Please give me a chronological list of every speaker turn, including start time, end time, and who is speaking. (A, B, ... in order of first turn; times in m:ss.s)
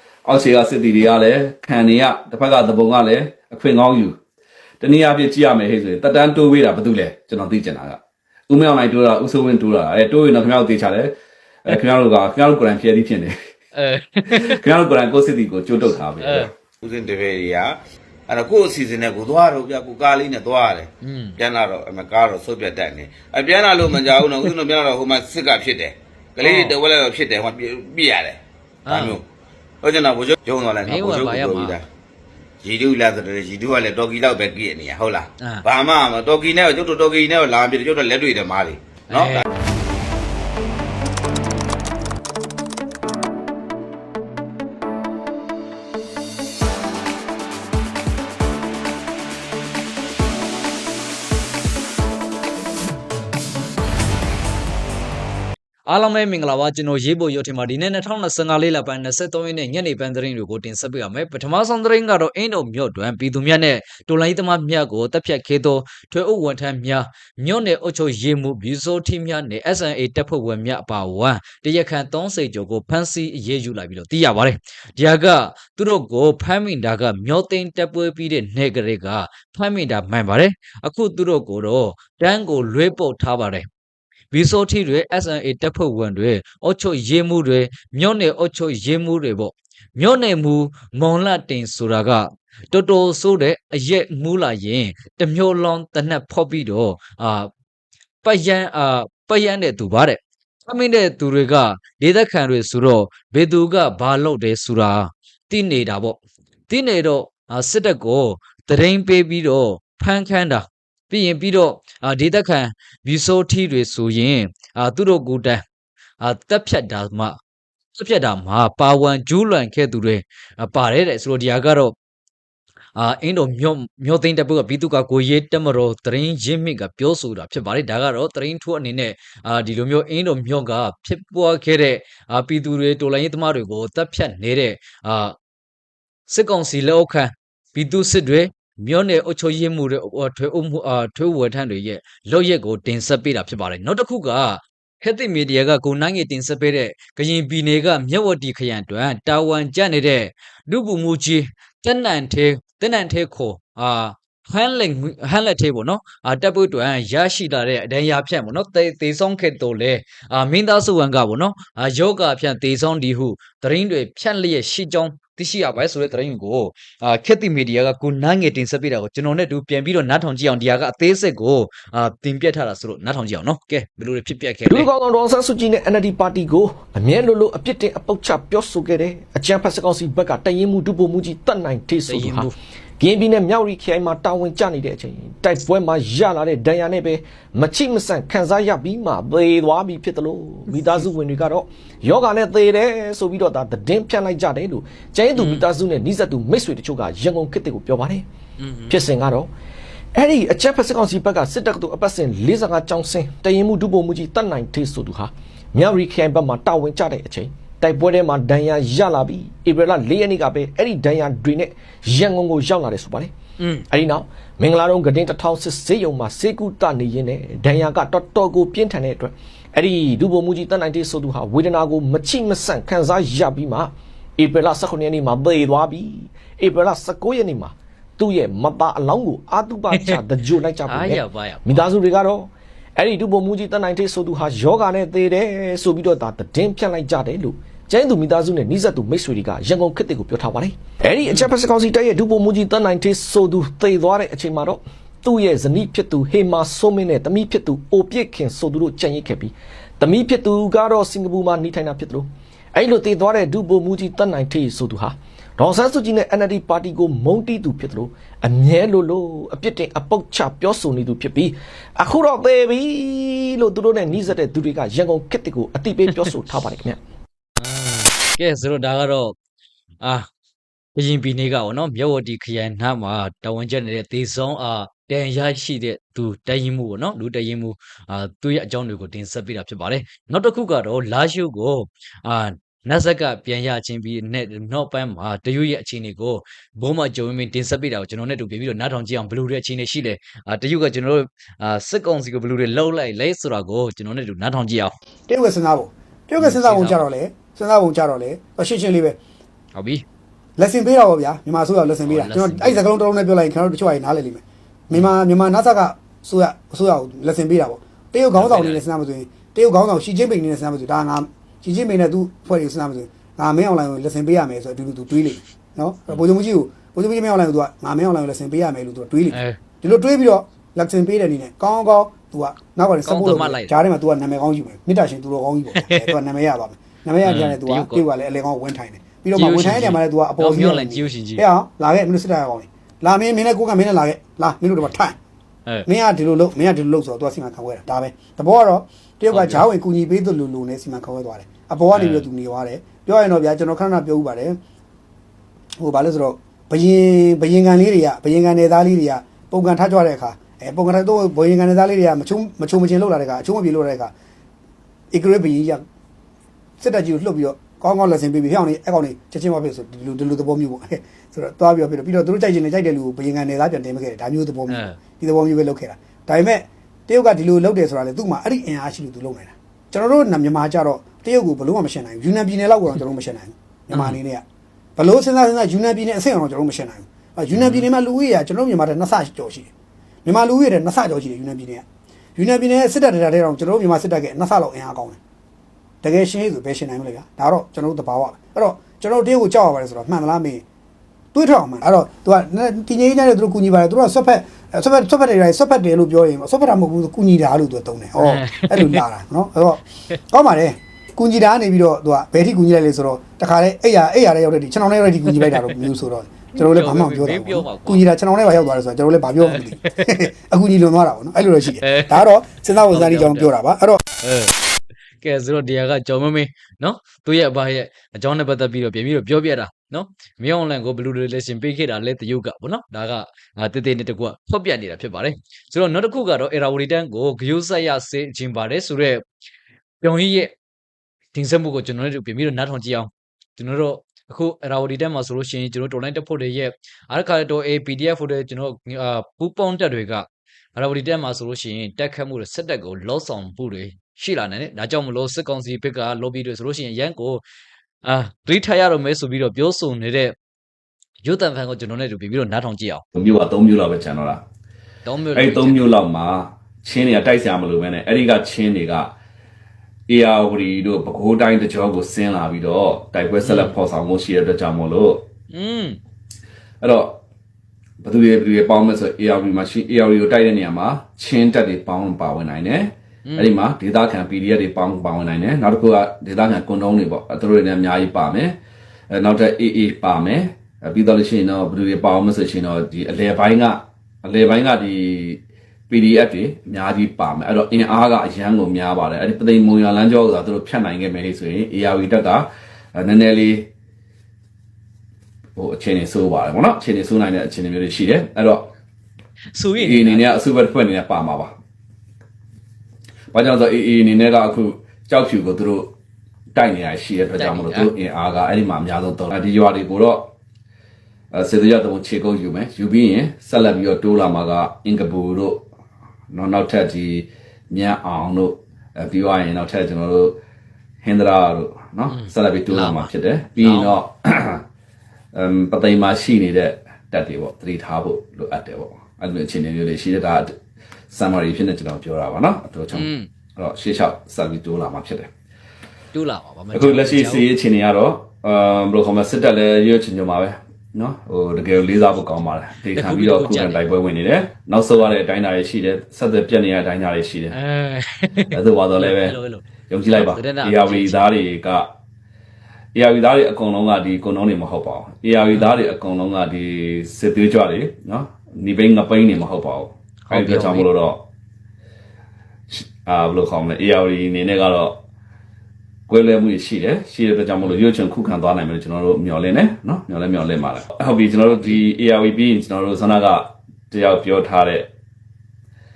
0:00.3-0:04.2 A
0:04.8-0:08.0 A
0:08.5-0:11.1 A
0:11.6-0:13.3 A
0:13.8-0:14.5 B
0:14.3-0:16.5 A
0:16.2-0:16.5 B
0:16.8-0:17.7 C
0:18.3-0:29.2 C
0:21.0-0:21.4 B
0:23.9-0:24.5 B
0:26.4-0:26.8 B
0:28.8-0:29.2 B
0:29.8-0:31.8 C
0:30.8-0:31.8 B
0:32.6-0:39.4 C
0:39.1-0:39.4 B
0:55.9-1:23.7 B
1:24.3-1:37.5 B
1:38.2-1:46.2 B
1:46.7-1:55.6 B
1:56.2-1:57.4 B
1:58.0-2:01.9 B
2:03.0-2:15.4 B
2:16.3-2:54.9 B
2:54.6-3:18.2 D
3:02.1-3:02.5 B
3:15.3-3:15.6 B
3:18.6-3:19.0 B
3:18.9-3:19.5 D
3:20.1-3:33.3 D
3:33.9-4:27.0 D
3:49.9-3:50.2 B
3:50.8-3:51.9 B
4:01.2-4:01.5 B
4:27.6-4:29.3 B
4:30.0-4:30.3 B
4:31.0-4:55.0 B
4:55.3-4:59.2 E
4:56.4-4:57.0 B
4:59.7-5:00.0 B
5:00.6-5:35.2 E
5:02.0-5:02.8 B
5:08.3-5:08.8 B
5:19.3-5:19.6 B
5:23.0-5:23.7 B
5:25.8-5:26.1 B
5:27.2-5:28.0 B
5:29.4-5:31.4 B
5:35.8-5:44.6 E
5:39.3-5:39.6 B
5:41.9-5:42.3 B
5:45.8-5:54.1 E
5:55.1-5:55.8 E
5:56.8-6:14.4 E
6:04.7-6:05.0 B
6:13.9-6:14.2 B
6:15.0-6:19.7 E
6:17.5-6:17.9 B
6:20.2-6:21.8 E
6:22.4-6:25.2 E
6:26.0-6:30.6 E
6:31.3-6:54.0 E
6:38.2-6:39.0 B
6:45.3-6:45.7 B
6:46.6-6:48.0 B
6:49.4-6:50.1 B
6:51.8-6:52.3 B
6:52.8-6:53.5 B
6:54.2-6:54.5 B
6:55.2-7:09.2 B
7:10.0-7:10.5 B
7:11.3-7:27.4 B
7:28.0-7:30.3 B
7:31.2-7:33.0 B
7:33.1-7:34.4 A
7:35.0-7:35.9 B
7:35.3-7:39.1 A
7:40.1-7:45.2 A
7:43.4-7:43.7 B
7:45.5-7:46.0 B
7:46.8-7:47.2 A
7:48.0-7:58.6 A
7:53.2-7:53.6 B
7:59.1-8:13.7 A
8:15.6-8:18.7 A
8:19.5-8:20.3 B
8:19.8-8:21.5 A
8:23.3-8:25.9 A
8:26.5-8:30.3 A
8:27.4-8:27.9 B
8:31.3-8:35.6 A
8:36.3-8:40.4 A
8:41.0-8:44.6 A
8:42.1-8:44.0 B
8:45.3-8:50.5 A
8:51.1-8:55.3 A
8:52.9-8:53.3 B
8:56.1-8:57.5 B
8:56.7-9:07.6 A
9:02.9-9:03.8 B
9:07.5-9:11.3 B
9:08.5-9:09.3 A
9:09.9-9:11.8 A
9:13.0-9:21.2 A
9:15.5-9:15.8 B
9:20.2-9:20.8 B
9:22.7-9:25.0 A
9:26.1-9:34.9 A
9:31.5-9:31.8 B